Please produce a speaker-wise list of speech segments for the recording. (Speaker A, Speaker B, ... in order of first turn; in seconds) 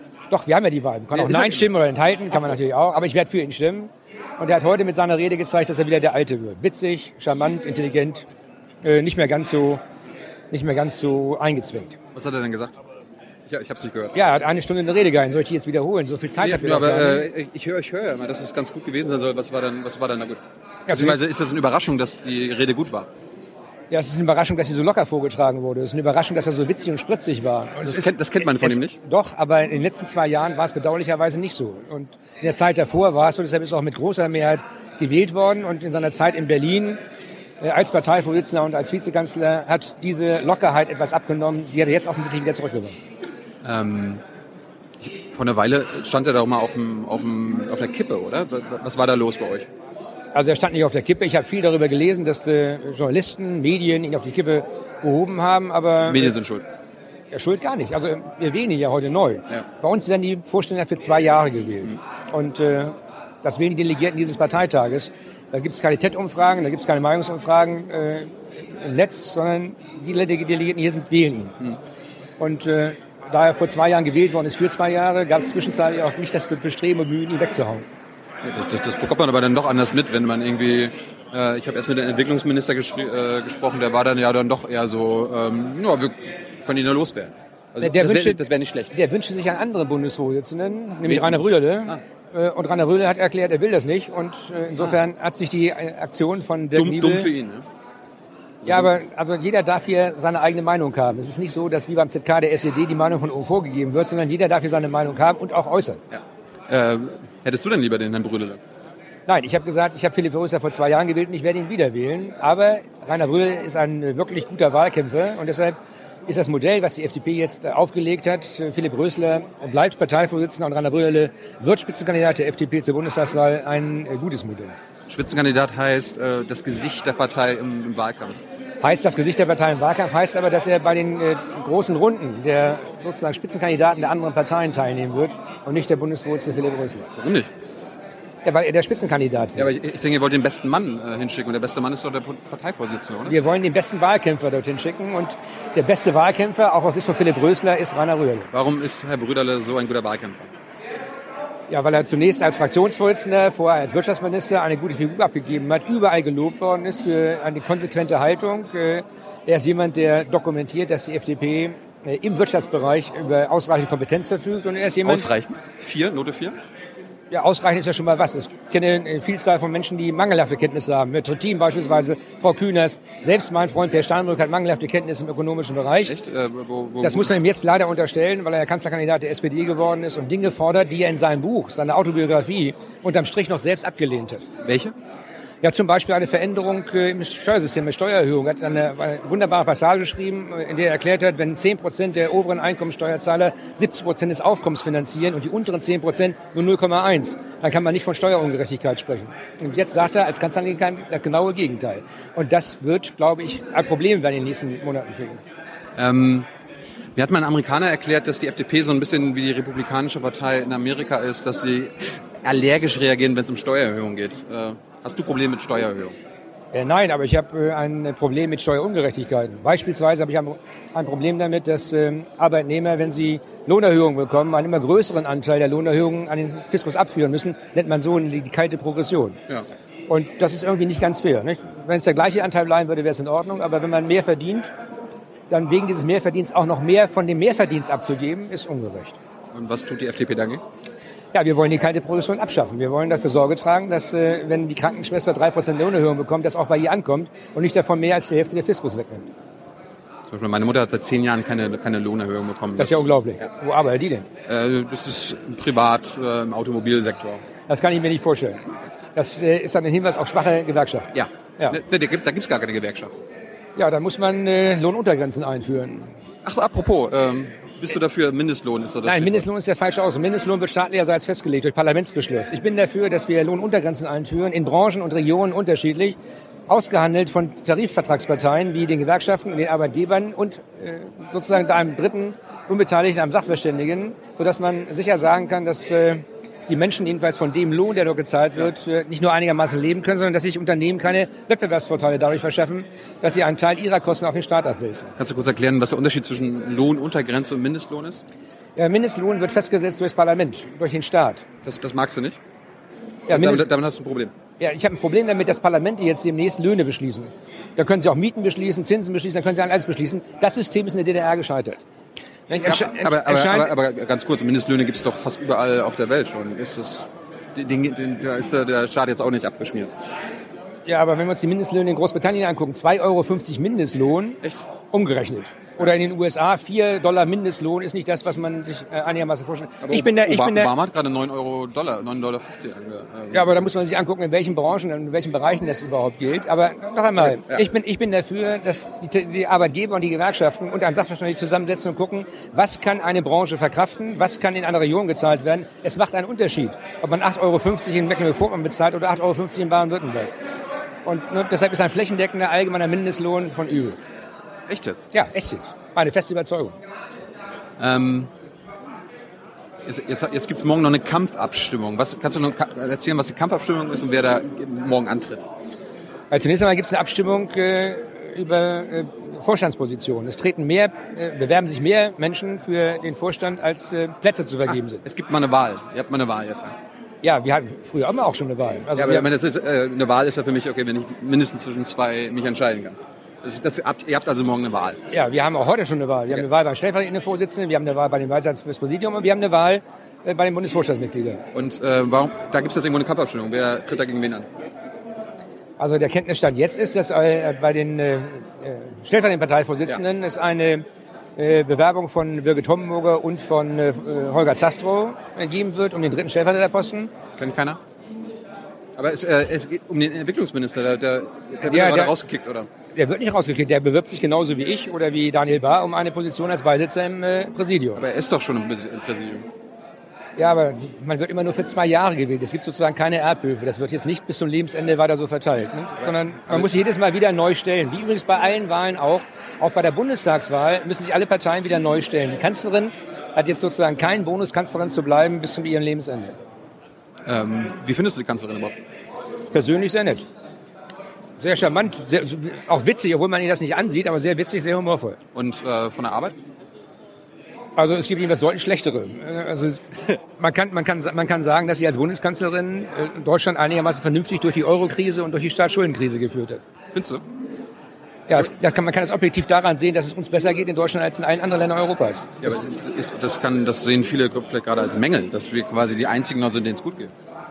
Speaker A: 0.3-8.2, 8.8-9.8, 10.5-12.0, 14.1-17.3, 20.9-21.2, 23.9-37.0, 37.6-43.0, 50.3-56.3, 57.3-71.7, 72.4-77.8, 87.8-88.4, 88.9-97.3, 98.6-106.0, 109.3-115.8, 116.3-124.8, 128.8-137.1, 138.4-139.7, 143.2-148.5, 151.7-165.3, 167.3-176.1, 177.0-184.4, 185.6-205.4, 216.7-229.4, 230.1-234.7, 235.5-239.1, 241.3-249.3, 252.8-254.3, 257.7-258.6, 259.1-261.8, 263.8-266.1, 269.0-276.2, 276.7-295.1, 298.8-301.4, 303.3-303.7, 304.6-311.8, 312.5-313.7, 320.9-330.7, 333.3-350.3, 351.0-354.0, 355.1-356.8, 366.3-375.0, 377.2-379.3, 385.1-391.4, 395.8-400.8, 401.4-407.1, 411.6-412.1, 412.9-418.0, 420.4-436.4, 439.5-440.3, 441.4-445.2, 447.8-456.6, 458.3-462.6
Speaker B: 1.1-1.7, 12.1-12.7, 13.5-14.2, 16.4-23.1, 27.8-29.0, 43.6-44.2, 45.0-49.7, 56.0-56.6, 78.4-88.9, 91.1-92.0, 96.7-97.7, 106.1-108.6, 125.1-128.4, 137.2-137.5, 139.6-143.3, 148.5-150.5, 165.0-166.6, 176.1-177.3, 184.6-184.9, 206.0-206.5, 207.2-216.1, 239.5-240.6, 250.3-253.1, 254.4-257.4, 261.1-263.2, 266.4-269.4, 295.2-298.2, 301.6-302.4, 303.3-304.3, 312.6-319.9, 329.8-333.6, 354.7-355.0, 357.8-358.3, 359.9-365.4, 375.0-376.8, 379.0-385.0, 391.5-394.5, 407.4-407.8, 409.0-412.7, 417.9-419.5, 426.1-426.7, 437.2-438.7, 445.3-446.4, 456.9-457.2, 462.4-467.1